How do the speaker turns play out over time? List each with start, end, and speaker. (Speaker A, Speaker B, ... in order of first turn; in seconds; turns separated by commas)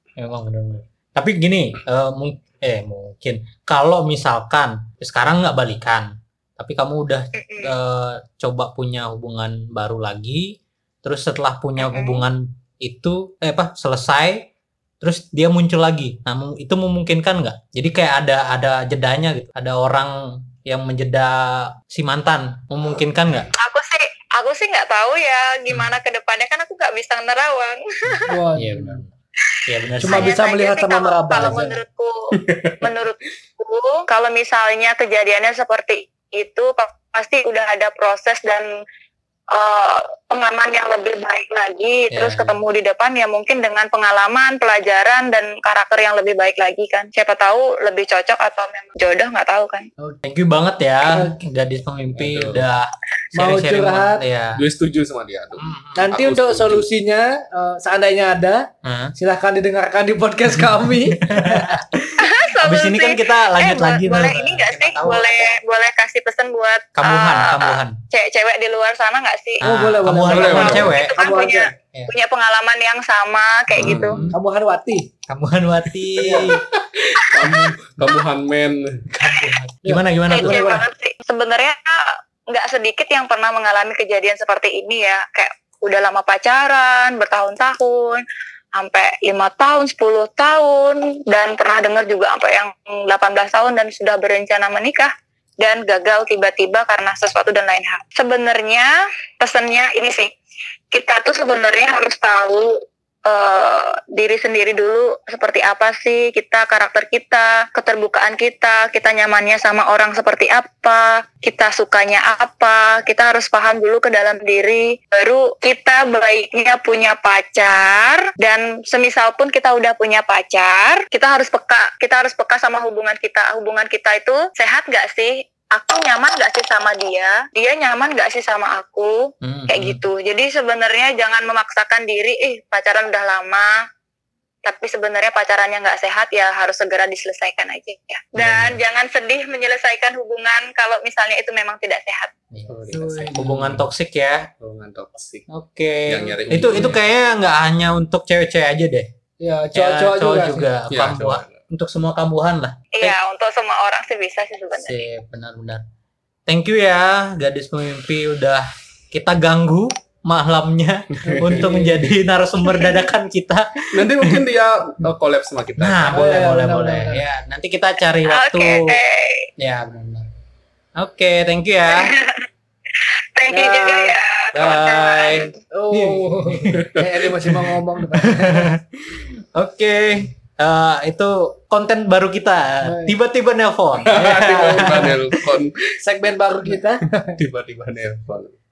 Speaker A: 0.2-14.5, Speaker B: 7.3-7.7, Speaker B: 11.8-12.3, Speaker A: 15.0-23.5, Speaker B: 23.6-28.3, Speaker A: 28.1-29.1, Speaker C: 28.3-29.0, Speaker A: 29.7-30.4, Speaker C: 30.0-31.8, Speaker B: 30.0-38.7, Speaker D: 32.4-32.9, Speaker B: 39.5-49.9, Speaker A: 42.1-42.6, Speaker A: 50.2-54.6, Speaker C: 51.1-51.4, Speaker D: 52.2-52.6, Speaker C: 53.4-54.2, Speaker D: 54.6-56.9, Speaker A: 55.6-56.1, Speaker C: 56.0-61.8, Speaker A: 58.8-59.1, Speaker A: 60.5-65.3, Speaker B: 62.2-69.7, Speaker A: 67.0-68.0, Speaker A: 69.6-71.1, Speaker C: 69.6-71.7, Speaker D: 70.3-70.9, Speaker B: 70.4-74.2, Speaker D: 73.7-74.2, Speaker A: 73.8-74.4, Speaker C: 74.3-75.1, Speaker A: 75.3-76.6, Speaker C: 76.2-76.5, Speaker D: 76.2-79.1, Speaker B: 77.4-77.7, Speaker A: 79.1-80.8, Speaker C: 79.8-80.8, Speaker B: 80.3-88.2, Speaker B: 88.8-100.3, Speaker B: 100.9-133.7, Speaker A: 129.4-130.0, Speaker B: 134.7-142.3, Speaker A: 138.4-138.8, Speaker A: 142.5-144.5, Speaker D: 142.7-143.5, Speaker C: 142.9-143.8, Speaker D: 144.6-145.5, Speaker A: 145.5-149.1, Speaker D: 146.1-147.0, Speaker C: 146.5-147.0, Speaker C: 149.4-150.7, Speaker A: 149.7-153.2, Speaker D: 150.9-151.6, Speaker B: 152.9-155.0, Speaker A: 154.7-155.8, Speaker A: 156.5-164.5, Speaker D: 161.2-161.8, Speaker C: 161.3-162.1, Speaker D: 163.9-166.2, Speaker A: 165.8-169.0, Speaker C: 166.1-167.2, Speaker B: 168.3-169.5, Speaker A: 169.6-170.3, Speaker A: 171.0-172.1, Speaker B: 171.9-172.5, Speaker B: 173.4-175.5, Speaker C: 173.5-174.2, Speaker A: 174.5-176.9, Speaker C: 175.7-178.8, Speaker D: 176.6-177.7, Speaker A: 178.1-185.4, Speaker C: 182.8-183.2, Speaker D: 184.1-185.9, Speaker C: 184.5-185.1, Speaker C: 186.0-187.4, Speaker D: 187.3-188.5